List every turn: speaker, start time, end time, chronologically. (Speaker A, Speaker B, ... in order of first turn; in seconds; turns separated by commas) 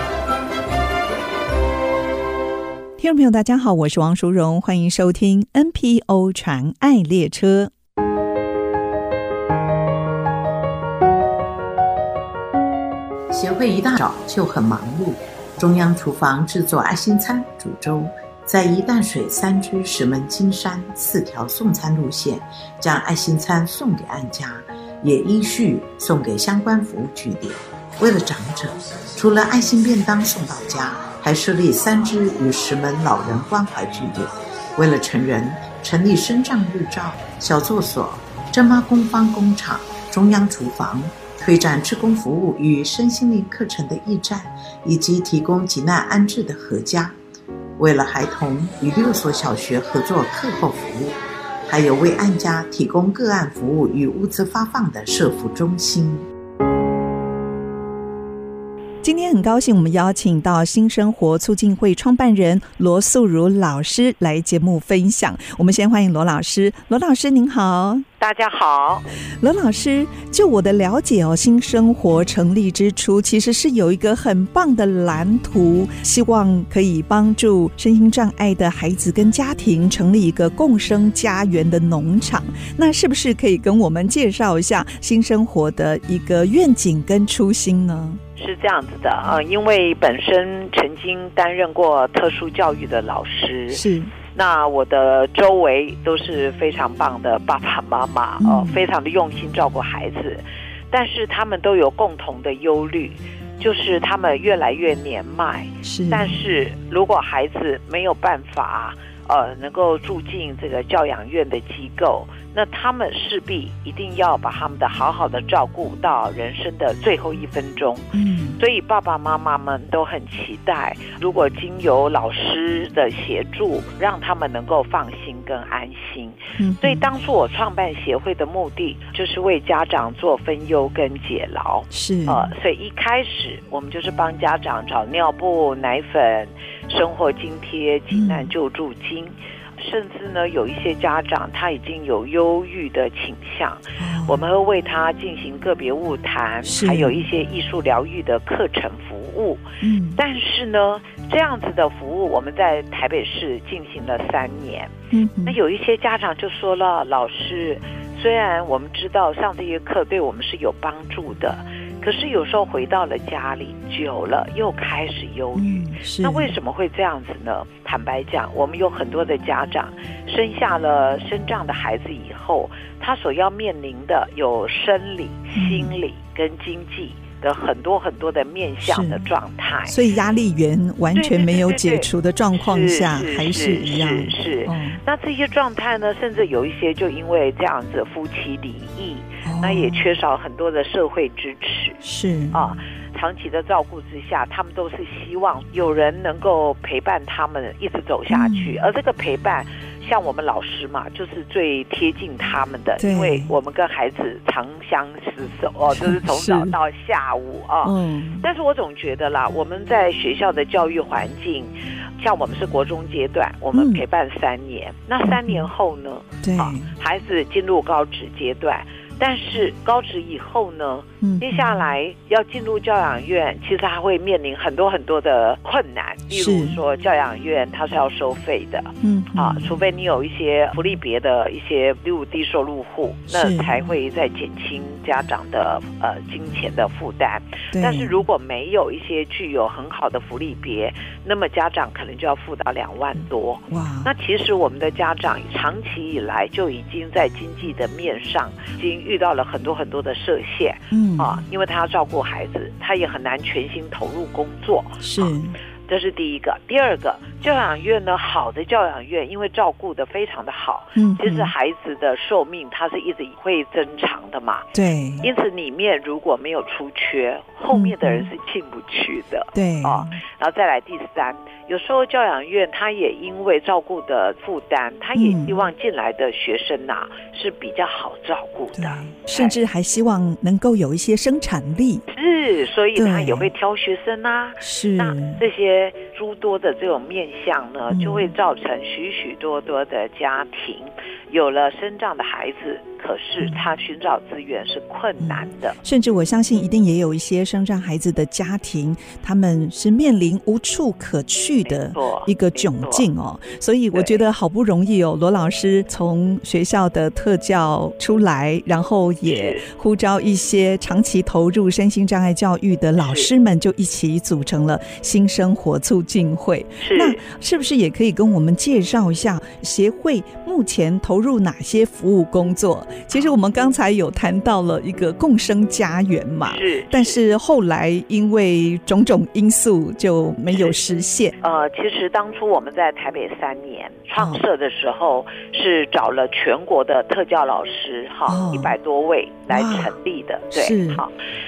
Speaker A: 3.0-7.7, Speaker B: 13.3-47.1, Speaker B: 47.8-56.2, Speaker A: 59.0-68.0, Speaker C: 68.2-69.1, Speaker A: 69.4-88.2, Speaker C: 88.3-154.9, Speaker A: 93.7-94.1, Speaker A: 98.4-98.8, Speaker A: 105.8-106.3, Speaker A: 118.1-118.6, Speaker A: 126.6-127.0, Speaker A: 131.9-132.5, Speaker A: 138.1-138.5, Speaker A: 144.0-144.4, Speaker A: 146.6-147.2, Speaker A: 149.8-150.2, Speaker A: 155.1-155.6, Speaker C: 155.4-179.9, Speaker A: 165.6-166.5, Speaker A: 175.5-175.9, Speaker A: 178.8-179.2, Speaker A: 179.9-185.0, Speaker C: 181.1-182.1, Speaker C: 182.6-192.0, Speaker A: 189.4-190.0, Speaker A: 192.0-192.7, Speaker C: 192.5-255.3, Speaker A: 198.3-198.7, Speaker A: 203.0-203.5, Speaker A: 205.9-206.8, Speaker A: 207.8-208.4, Speaker A: 213.7-214.0, Speaker A: 215.2-215.7, Speaker A: 216.4-216.9, Speaker A: 221.2-221.7, Speaker A: 226.3-226.8, Speaker A: 229.0-229.8, Speaker A: 233.3-233.8, Speaker A: 237.7-238.2, Speaker A: 243.7-244.1, Speaker A: 250.9-251.3, Speaker A: 255.0-255.5, Speaker C: 255.9-279.6, Speaker A: 260.9-261.5, Speaker A: 264.7-265.3, Speaker A: 267.7-268.3, Speaker A: 269.5-270.2, Speaker A: 275.1-275.6, Speaker A: 278.7-282.0, Speaker C: 282.1-295.8, Speaker A: 282.9-283.5, Speaker A: 284.6-285.4, Speaker A: 287.9-288.3, Speaker A: 295.2-331.4, Speaker C: 301.7-303.1, Speaker C: 303.9-304.2, Speaker C: 309.2-309.7, Speaker C: 313.0-313.3, Speaker C: 316.8-317.2, Speaker C: 326.4-327.2, Speaker C: 331.4-341.1, Speaker A: 334.2-334.4, Speaker A: 338.3-338.7, Speaker A: 339.5-339.9, Speaker A: 340.5-341.0